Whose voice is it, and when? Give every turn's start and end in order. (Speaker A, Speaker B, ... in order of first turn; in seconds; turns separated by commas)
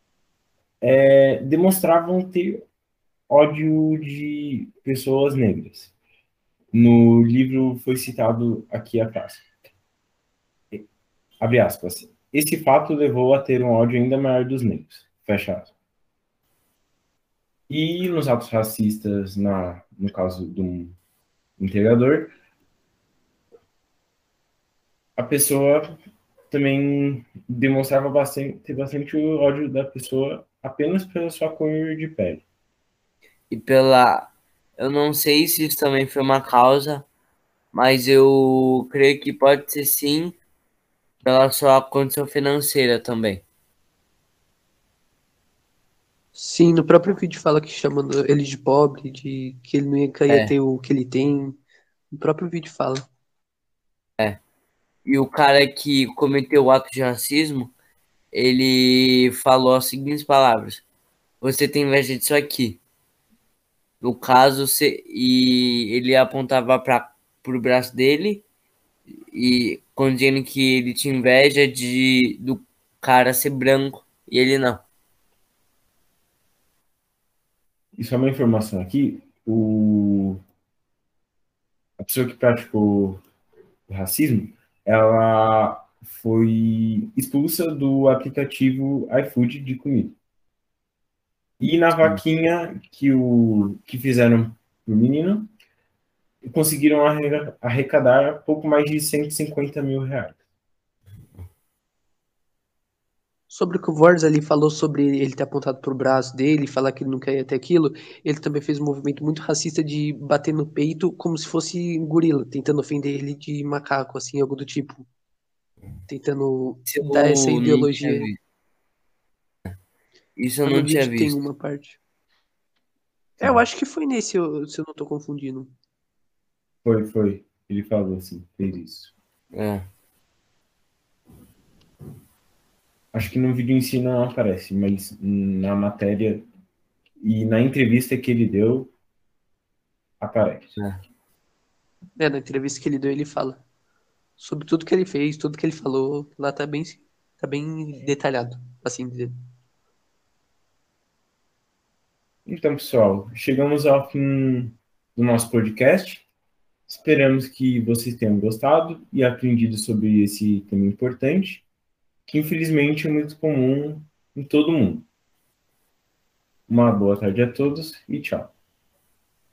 Speaker A: 0.8-2.6, Speaker A: 3.3-5.9, Speaker A: 6.7-9.5, Speaker A: 11.4-15.7, Speaker A: 17.7-21.0, Speaker A: 21.6-22.3, Speaker A: 25.2-26.0, Speaker A: 26.5-32.4, Speaker B: 33.5-37.1, Speaker B: 37.7-40.4, Speaker B: 41.2-43.4, Speaker C: 46.4-51.6, Speaker B: 50.3-50.5, Speaker C: 52.1-53.1, Speaker B: 55.1-57.7, Speaker B: 58.3-60.9, Speaker B: 61.4-62.8, Speaker B: 64.0-68.4, Speaker B: 69.3-74.8, Speaker A: 78.0-80.4, Speaker A: 82.0-83.2, Speaker A: 83.9-90.2, Speaker A: 91.6-95.5, Speaker A: 96.4-100.4, Speaker C: 103.5-115.1, Speaker C: 116.1-118.3, Speaker B: 116.9-118.4, Speaker B: 120.4-121.4, Speaker C: 120.7-122.0, Speaker C: 123.4-125.7, Speaker A: 126.8-129.1, Speaker B: 129.5-129.8, Speaker A: 133.1-136.5, Speaker A: 137.2-138.9, Speaker A: 140.2-140.8, Speaker C: 142.2-143.6, Speaker C: 144.4-149.4, Speaker A: 152.5-156.3, Speaker A: 156.9-161.7, Speaker A: 162.2-165.1, Speaker A: 166.7-168.5